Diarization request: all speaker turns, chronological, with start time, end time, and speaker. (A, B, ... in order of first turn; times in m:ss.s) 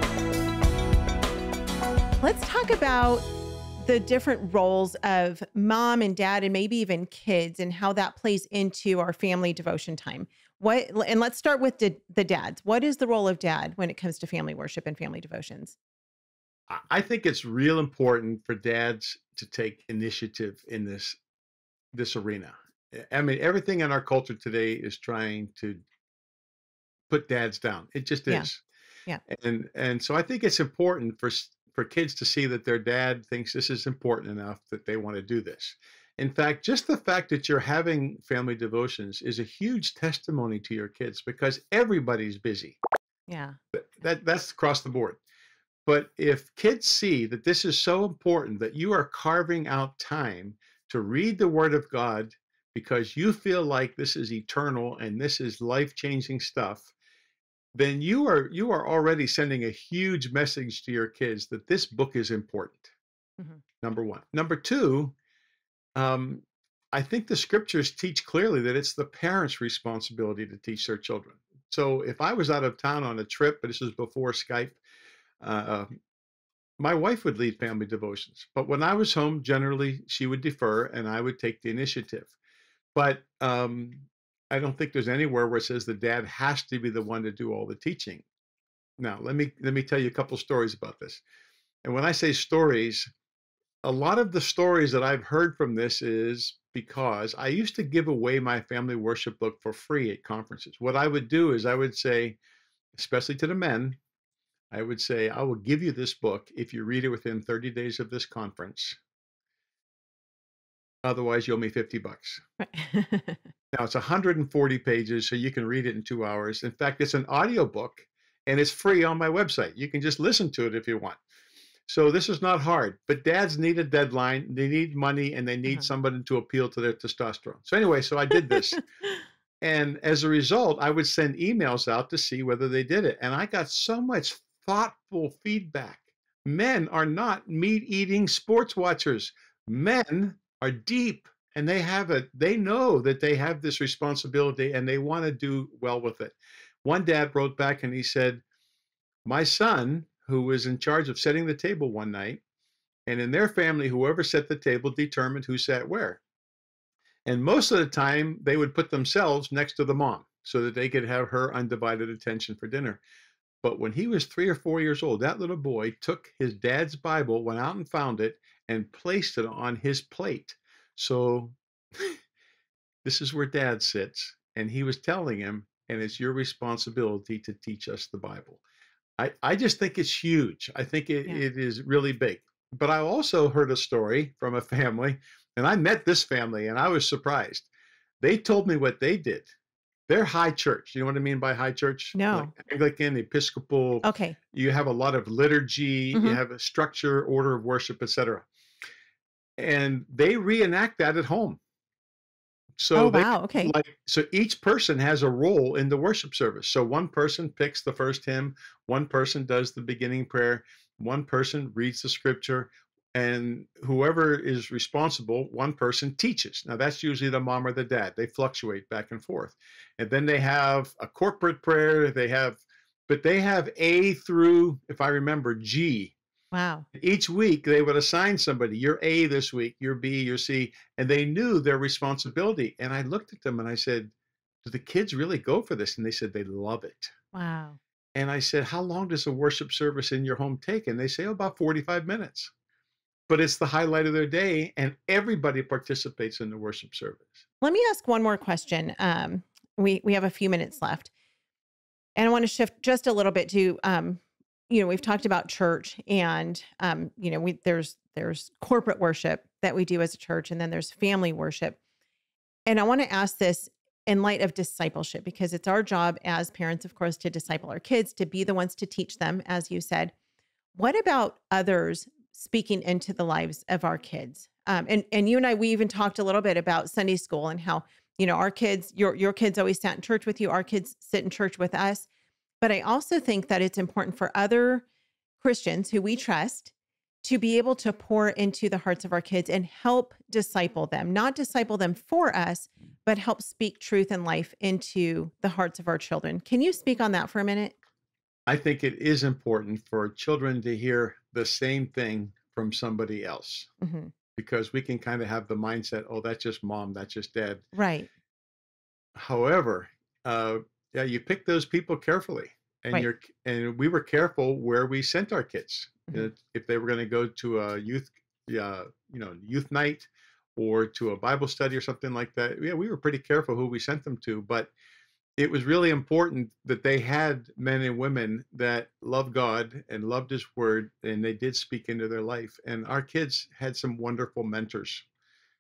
0:02.2-0:15.8 A
0:16.7-0:21.2 B
0:21.9-0:25.8 B
0:27.1-0:28.6 B
0:29.3-0:42.8 B
0:43.3-0:43.6 A
0:43.7-0:45.2 B
0:45.9-0:56.9 B
0:57.7-1:02.9 B
1:03.8-1:05.1 B
1:06.0-1:14.8 B
1:15.4-1:16.0 B
1:16.8-1:22.3 B
1:23.0-1:28.2 B
1:29.0-1:31.2 B
1:31.8-1:33.1 B
1:33.8-1:42.4 B
1:43.0-1:44.0 B
1:44.7-1:49.0 B
1:51.0-1:52.4 B
1:52.6-1:53.5 A
1:53.7-2:01.2 B
2:01.9-2:08.8 B
2:09.6-2:28.4 B
2:29.2-2:32.4 B
2:33.1-2:36.2 B
2:37.3-2:43.0 B
2:43.6-2:52.2 B
2:53.0-2:58.6 B
2:59.2-3:07.7 B
3:08.2-3:09.5 B
3:10.1-3:18.5 B
3:12.2-3:12.5 A
3:14.0-3:14.4 A
3:16.1-3:16.4 A
3:19.6-3:21.6 B
3:22.8-3:46.2 B
3:23.0-3:23.8 A
3:46.5-3:46.9 A
3:46.9-3:57.1 B
3:57.3-3:57.8 A
3:58.2-4:02.5 B
4:03.3-4:07.4 B
4:07.6-4:11.1 A
4:12.2-4:21.8 A
4:22.7-4:30.1 A
4:30.8-4:42.1 A
4:42.6-4:44.8 A
4:45.4-4:46.7 A
4:47.2-4:57.8 A
4:58.5-5:03.7 B
5:03.8-5:04.1 A
5:04.4-5:07.6 B
5:07.7-5:08.1 A
5:09.2-5:24.7 B
5:25.4-5:35.0 B